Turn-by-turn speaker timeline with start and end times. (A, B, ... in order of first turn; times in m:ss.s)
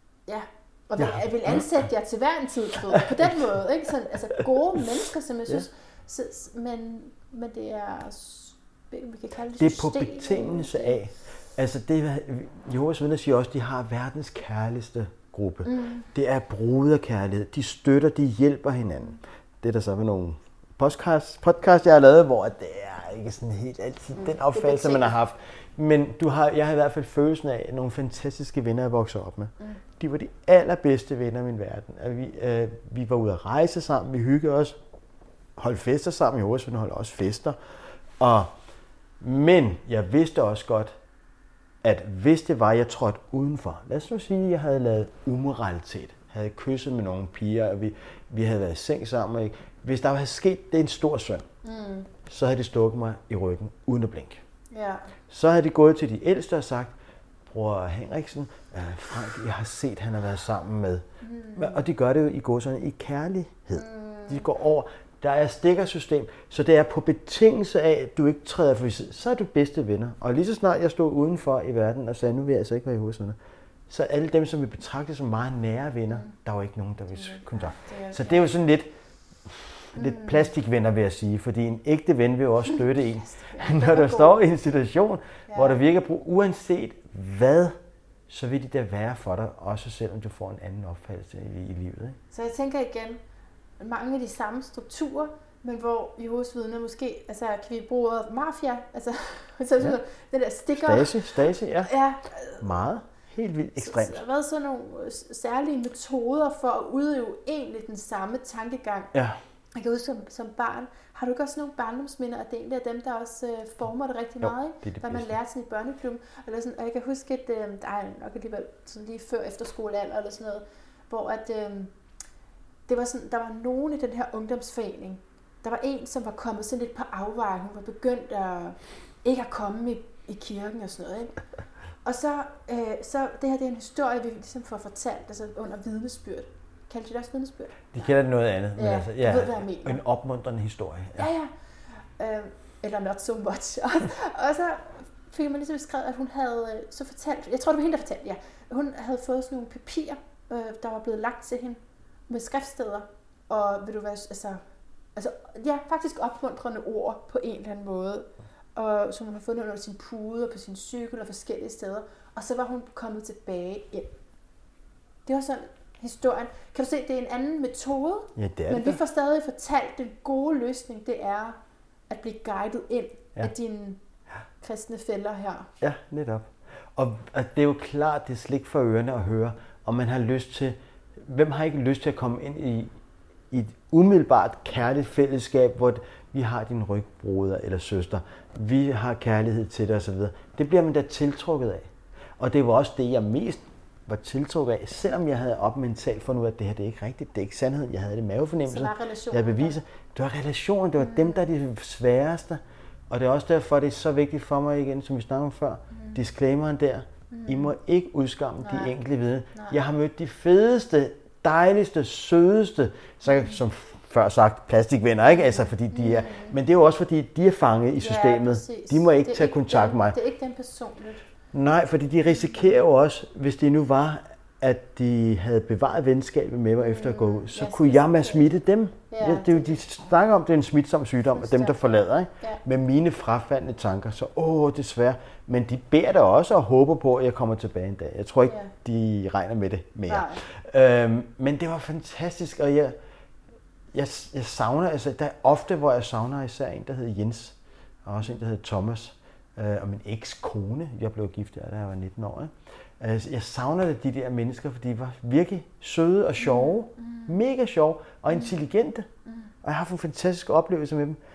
0:00.3-0:11.0 A
0:01.0-0:01.6 B
0:03.0-0:03.3 B
0:09.6-0:34.8 B
0:15.6-0:16.1 A
0:24.1-0:25.2 A
0:35.6-0:37.6 B
0:38.2-0:38.5 B
0:39.2-0:40.9 B
0:41.8-0:51.4 B
0:51.6-0:52.1 A
0:52.3-0:54.4 B
0:54.7-0:55.1 A
0:55.3-0:56.9 B
0:57.5-1:13.4 B
1:01.2-1:01.8 A
1:03.7-1:04.5 A
1:13.9-1:18.9 B
1:17.1-1:18.4 A
1:19.4-1:27.8 B
1:19.9-1:20.5 A
1:23.2-1:24.4 A
1:25.5-1:25.8 A
1:28.3-1:32.2 B
1:32.3-1:33.2 A
1:33.8-1:42.6 A
1:40.8-1:41.9 B
1:42.6-1:44.2 B
1:43.8-1:49.1 A
1:49.8-2:01.9 A
1:54.4-1:55.3 B
2:02.9-2:11.3 A
2:12.0-2:18.1 A
2:17.9-2:21.3 B
2:18.8-2:20.0 A
2:21.2-2:21.5 A
2:22.2-2:34.6 A
2:35.2-2:44.1 A
2:45.2-2:51.6 A
2:48.4-2:49.0 B
2:52.1-2:54.0 A
2:54.6-2:55.7 A
2:55.8-3:02.9 B
3:03.5-3:40.2 B
3:18.6-3:19.8 A
3:21.0-3:21.4 A
3:25.9-3:26.2 A
3:27.3-3:27.7 A
3:28.6-3:28.9 A
3:29.5-3:29.8 A
3:35.3-3:36.6 A
3:38.0-3:41.2 A
3:41.5-4:02.9 B
3:46.8-3:48.5 A
3:49.1-3:49.8 A
3:51.3-3:52.6 A
3:58.4-3:58.7 A
4:00.1-4:00.4 A
4:03.9-4:19.1 B
4:16.4-4:17.3 A
4:19.2-4:19.5 A
4:19.6-4:21.2 B